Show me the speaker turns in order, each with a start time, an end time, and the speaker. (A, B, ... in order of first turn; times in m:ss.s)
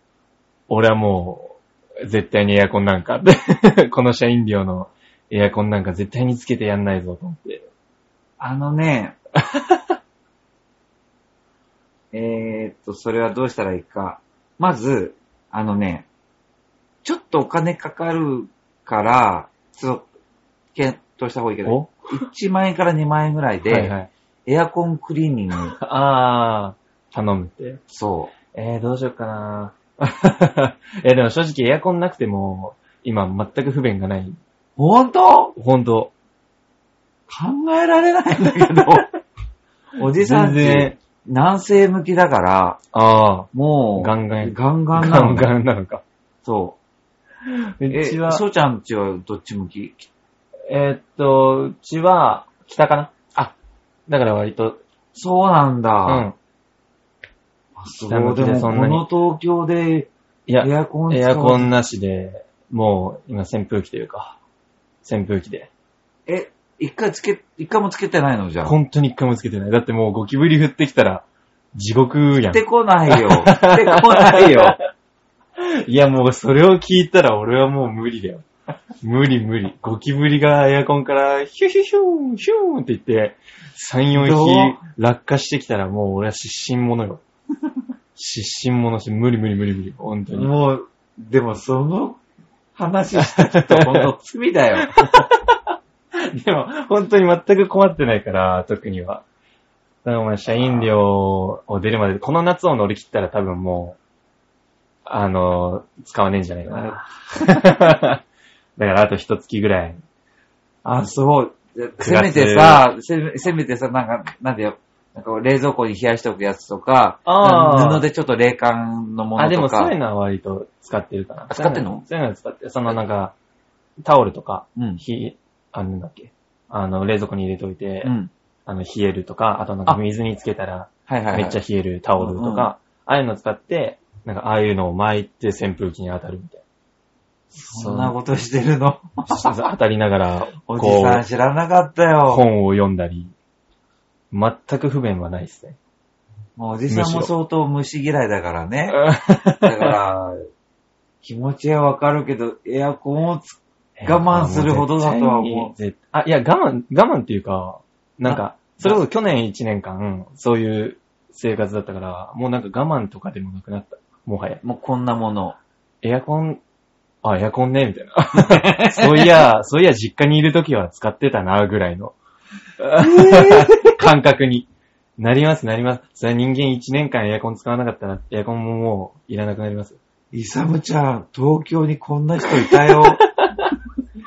0:00.7-0:07.7 A
0:08.4-0:09.2 B
0:09.5-0:09.8 A
0:12.1-0:16.1 B
0:17.0-0:20.1 B
0:20.8-0:24.0 B
0:21.6-0:22.2 A
0:23.7-0:24.1 A
0:24.5-0:25.8 B
0:25.8-0:27.8 A
0:27.9-0:28.3 B
0:28.5-0:34.4 A
0:34.8-0:35.6 B
0:35.6-0:36.1 A
0:37.3-0:39.1 B
0:40.0-0:42.8 B
0:40.2-0:41.0 A
0:42.9-0:46.0 A
0:43.5-0:45.5 B
0:46.4-0:46.8 B
0:47.7-0:48.4 A
0:47.9-0:50.1 B
0:50.7-0:53.6 A
0:54.1-0:54.8 A
0:55.1-0:56.3 B
0:56.1-0:56.4 A
0:57.8-1:01.7 B
0:58.0-0:59.0 A
1:00.5-1:04.4 A
1:05.0-1:05.7 A
1:06.3-1:08.8 B
1:08.6-1:14.8 A
1:12.5-1:14.8 B
1:15.6-1:18.4 A
1:19.0-1:27.2 A
1:24.1-1:24.8 B
1:28.2-1:30.5 A
1:30.3-1:32.2 B
1:32.8-1:35.0 B
1:33.2-1:34.1 A
1:34.8-1:35.3 A
1:36.3-1:39.2 A
1:40.0-1:44.0 A
1:40.5-1:41.0 B
1:45.1-1:48.2 A
1:46.7-1:47.6 B
1:48.8-1:50.0 A
1:50.8-2:00.0 B
1:52.0-1:52.9 A
1:57.3-1:58.0 A
1:59.4-2:03.4 A
2:01.5-2:02.1 B
2:04.0-2:08.1 A
2:04.8-2:05.0 B
2:08.0-2:08.3 B
2:08.7-2:16.6 A
2:11.1-2:11.6 B
2:12.2-2:12.7 B
2:17.5-2:19.5 B
2:17.6-2:18.1 A
2:19.3-2:21.2 A
2:20.7-2:22.4 B
2:22.3-2:23.3 A
2:24.3-2:25.8 A
2:26.6-2:29.0 B
2:26.9-2:27.3 A
2:28.9-2:29.9 A
2:29.6-2:30.4 B
2:31.2-2:35.7 B
2:34.0-2:44.6 A
2:38.2-2:39.0 B
2:44.6-2:45.6 B
2:46.0-2:46.6 A
2:47.2-2:52.2 A
2:48.6-2:49.4 B
2:52.8-3:00.0 A
2:53.0-2:54.0 B
3:00.3-3:03.2 B
3:02.7-3:03.7 A